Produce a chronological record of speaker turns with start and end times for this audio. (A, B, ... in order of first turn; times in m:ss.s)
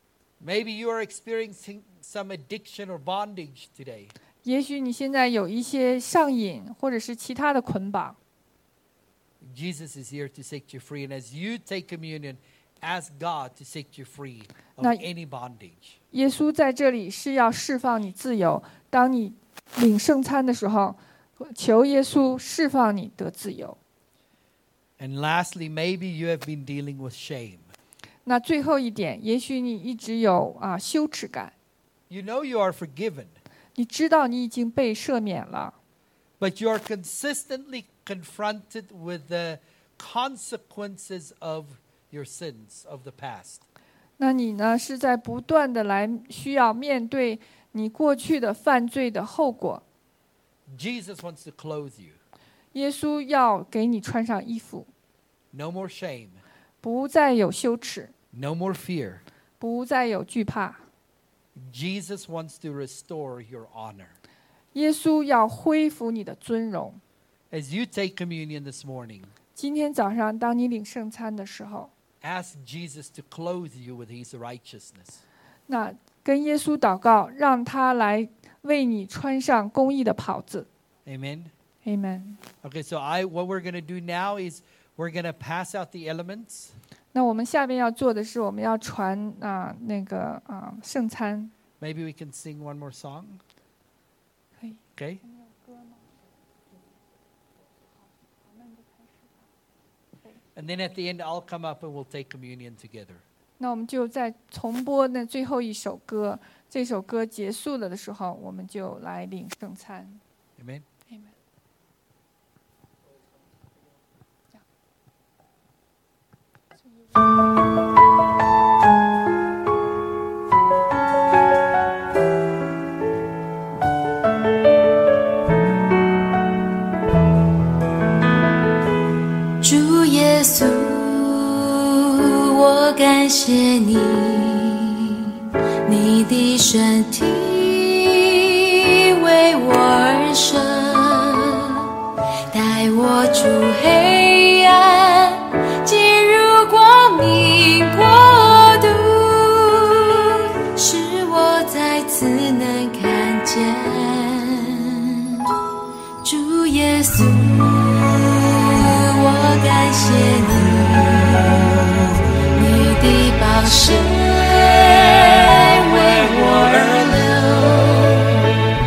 0:00.4-0:04.1 A
0:04.4-0:08.2 B
0:09.4-0:16.0 A
0:14.8-0:15.0 B
0:16.1-0:23.8 B
0:25.0-0:27.7 A
0:28.2-0:31.5 B
0:32.1-0:33.4 A
0:33.8-0:35.8 B
0:36.4-0:43.6 A
0:44.2-0:49.8 B
0:50.7-0:52.2 A
0:52.7-0:54.9 B
0:55.5-0:56.4 A
0:56.8-0:58.1 B
0:58.3-0:59.2 A
0:59.6-1:00.8 B
1:01.6-1:04.2 A
1:04.7-1:07.0 B
1:07.5-1:09.3 A
1:09.6-1:11.9 B
1:12.2-1:15.2 A
1:15.7-1:20.7 B
1:21.1-1:21.5 A
1:21.8-1:22.4 B
1:22.6-1:26.7 A
1:27.1-1:31.5 B
1:31.8-1:33.4 A
1:34.6-1:36.0 B
1:35.0-1:35.2 A
1:38.4-1:39.4 B
1:40.6-1:43.2 A
1:43.6-1:50.2 B
1:50.6-1:50.9 A
1:51.1-1:51.3 B
2:09.6-2:21.9 C
2:22.5-2:35.5 C
2:36.2-2:48.5 C